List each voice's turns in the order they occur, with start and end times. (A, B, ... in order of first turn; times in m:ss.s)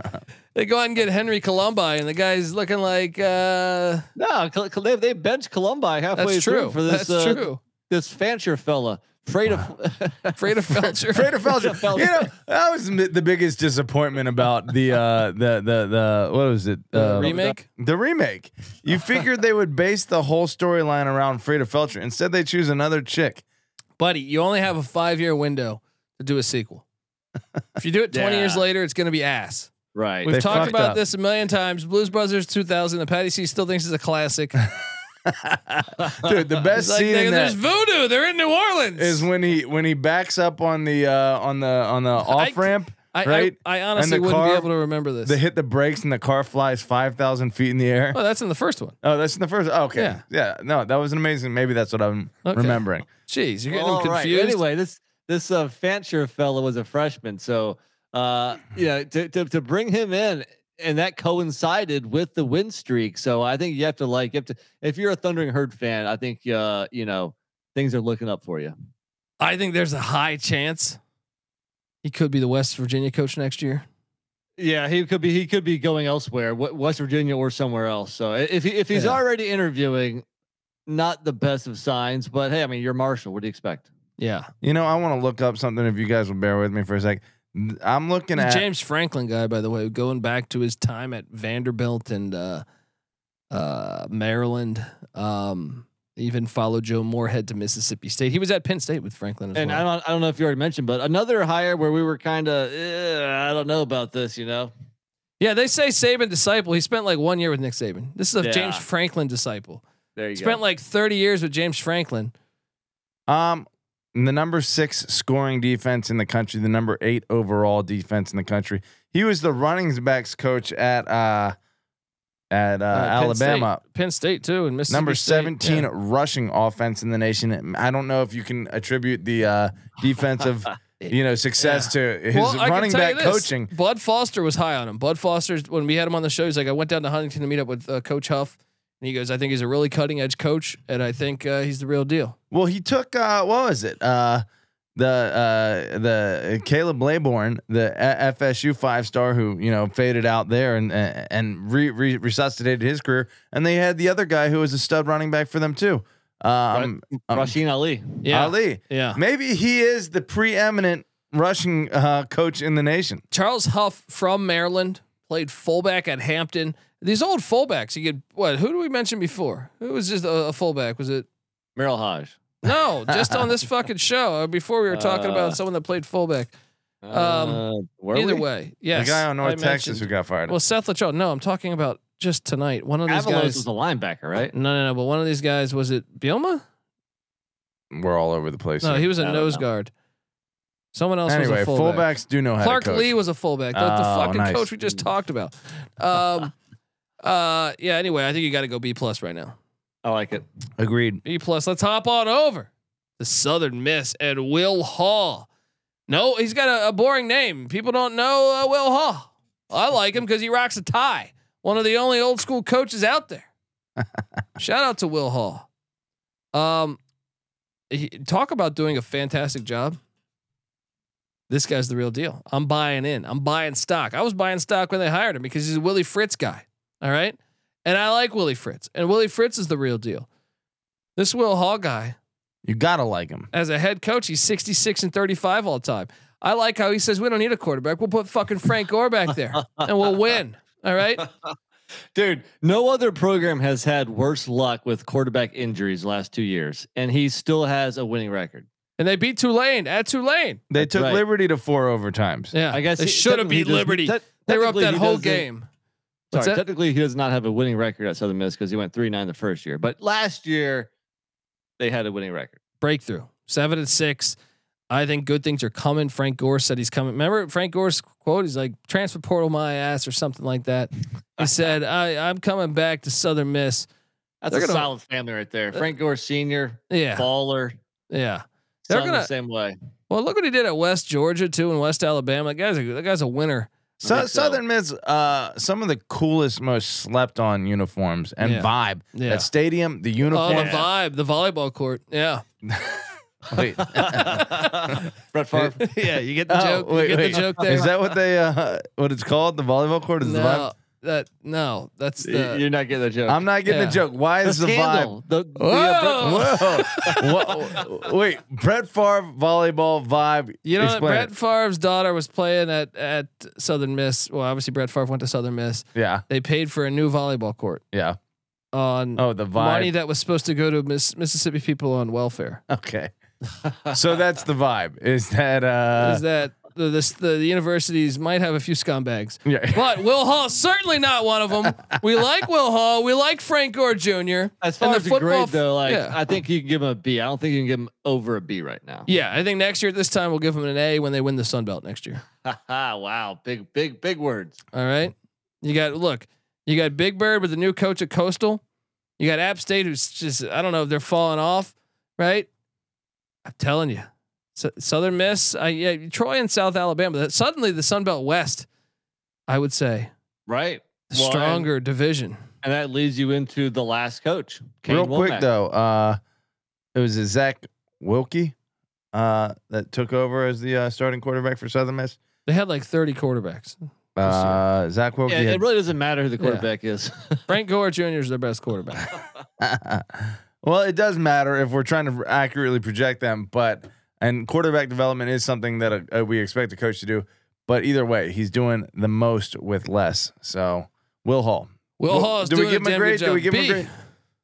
0:00.6-0:04.0 A
0:04.2-0:12.3 B
0:06.2-0:07.6 A
0:10.4-0:11.4 A
0:11.1-0:23.4 C
0:16.9-0:17.6 A
0:17.2-0:17.6 B
0:24.0-0:26.8 A
0:27.8-0:29.7 A
0:28.1-0:28.6 B
0:30.0-0:30.7 B
0:30.2-0:34.6 A
0:30.3-0:31.0 C
0:35.3-0:37.6 C
0:36.8-0:39.3 A
0:39.0-0:44.7 C
0:42.2-0:45.4 A
0:45.2-0:48.2 C
0:48.1-0:49.0 A
0:49.0-0:53.1 C
0:50.0-0:50.2 A
0:52.4-0:54.6 A
0:53.7-1:08.7 B
1:09.4-1:11.0 A
1:12.0-1:13.8 A
1:14.6-1:20.2 B
1:18.9-1:19.2 A
1:20.9-1:23.9 B
1:24.2-1:24.5 A
1:24.6-1:28.7 C
1:28.3-1:32.6 A
1:33.5-1:39.8 A
1:39.6-1:44.7 B
1:45.4-1:49.8 A
1:48.4-1:48.8 B
1:50.2-1:50.6 B
1:50.4-1:52.3 A
1:53.3-2:01.6 C
2:02.5-2:03.8 C
2:02.9-2:05.9 A
2:04.9-2:13.7 C
2:11.0-2:22.3 A
2:22.5-2:24.4 C
2:25.0-2:37.6 C
2:36.7-2:38.2 B
2:38.2-2:39.2 A
2:38.3-2:43.2 C
2:43.3-2:51.3 A
2:51.8-2:52.4 B
2:52.6-2:56.5 A
2:52.7-2:53.4 C
2:54.9-2:55.6 B
2:57.0-2:58.4 B
2:57.1-2:57.6 A
2:58.1-3:03.6 A
2:58.9-3:00.6 C
3:03.1-3:04.5 B
3:04.5-3:06.6 A
3:07.9-3:09.1 C
3:08.8-3:09.9 A
3:09.2-3:09.6 B
3:10.9-3:16.5 A
3:11.3-3:13.1 C
3:13.7-3:14.7 C
3:17.2-3:19.6 A
3:20.0-3:20.4 B
3:20.8-3:21.2 C
3:21.2-3:25.5 A
3:26.1-3:33.5 A
3:34.6-3:35.7 A
3:36.5-3:37.0 A
3:37.9-3:40.0 A
3:41.5-3:50.3 A
3:51.2-3:52.2 A
3:52.6-3:53.5 C
3:53.5-4:01.3 A
4:02.1-4:08.7 B
4:09.0-4:10.6 A
4:10.7-4:12.5 C
4:10.8-4:11.2 B
4:12.5-4:15.7 A
4:12.7-4:15.5 B
4:16.3-4:16.6 A
4:16.3-4:20.9 B
4:21.8-4:22.6 B
4:22.8-4:24.4 A
4:24.9-4:33.9 A
4:34.4-4:37.8 B
4:34.5-4:34.9 A
4:36.9-4:37.3 A
4:38.1-4:39.3 A
4:38.9-4:39.8 B
4:40.1-4:43.7 A
4:44.0-4:44.6 B
4:44.0-4:50.8 C
4:48.4-4:49.5 A
4:50.3-4:52.4 A
4:50.4-4:50.9 B
4:52.7-4:53.0 C
4:53.5-4:55.0 C
4:53.8-4:55.8 B
4:54.3-4:54.7 A
4:55.8-4:57.9 A
4:56.5-5:00.7 C
5:00.2-5:02.6 A
5:02.2-5:03.4 B
5:03.3-5:05.1 C
5:03.6-5:04.0 A
5:04.4-5:07.8 B
5:05.6-5:07.5 A
5:06.1-5:11.3 C
5:10.6-5:17.8 A
5:16.0-5:16.2 C
5:17.9-5:18.2 C
5:18.7-5:22.6 A
5:19.2-5:19.9 C
5:22.7-5:23.1 C
5:23.9-5:26.2 C
5:26.0-5:36.2 A
5:29.4-5:30.0 C
5:34.6-5:39.1 B
5:39.1-5:42.2 A
5:42.4-5:44.6 B
5:44.7-5:48.6 A
5:49.2-5:52.5 A
5:53.4-5:58.7 A
5:59.5-6:00.1 A
6:00.5-6:01.7 B
6:01.1-6:02.4 A
6:02.6-6:05.5 B
6:04.9-6:06.2 C
6:07.0-6:08.6 C
6:09.1-6:12.2 C
6:12.4-6:14.6 A
6:14.2-6:15.6 C
6:15.3-6:17.4 B
6:17.5-6:19.1 A
6:19.6-6:33.9 C
6:32.0-6:33.9 A